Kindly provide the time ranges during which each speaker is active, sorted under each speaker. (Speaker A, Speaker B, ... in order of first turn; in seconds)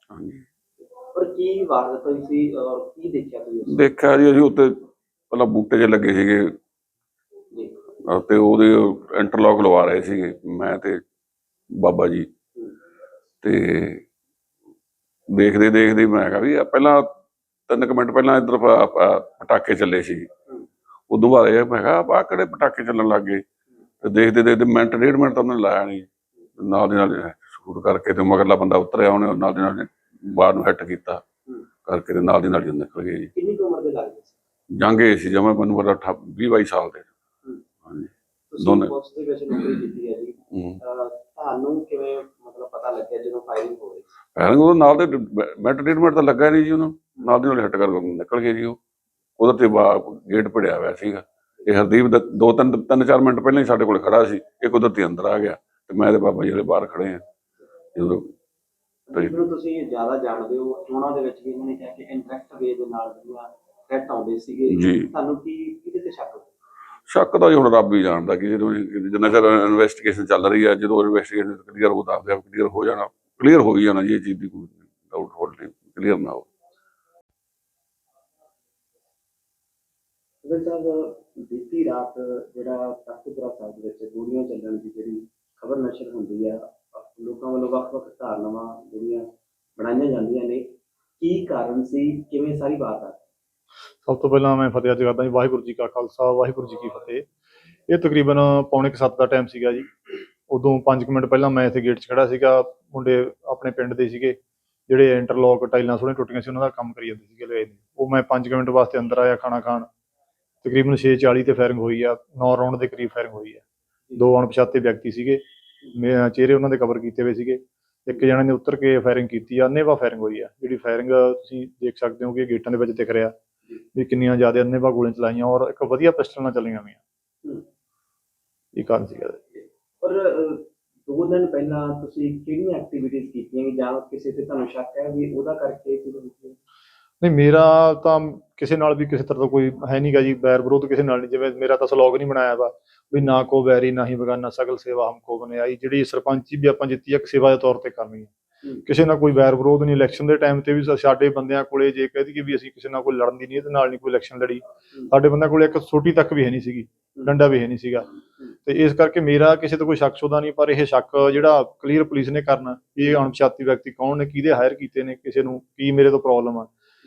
Speaker A: 0.1-0.5, 3.7-6.5, 8.1-11.0, 11.8-12.3, 13.4-14.0, 15.3-17.1, 17.7-20.3, 21.1-23.4, 24.0-26.1, 26.6-31.2, 31.9-33.3, 34.8-37.1, 38.6-38.9, 40.5-40.8, 44.4-48.8, 49.4-57.2, 58.0-58.3, 64.7-65.1, 67.1-76.5
Speaker B: 1.1-4.0, 7.5-7.8, 33.3-34.4, 38.5-44.1, 59.1-66.5, 80.4-93.2, 129.6-136.6
Speaker C: 94.0-97.3, 97.9-99.9, 100.5-104.4, 104.9-109.9, 110.6-113.6, 114.2-115.4, 115.9-123.3, 124.0-127.0, 128.8-129.4, 137.2-148.3, 148.8-158.1, 158.7-166.7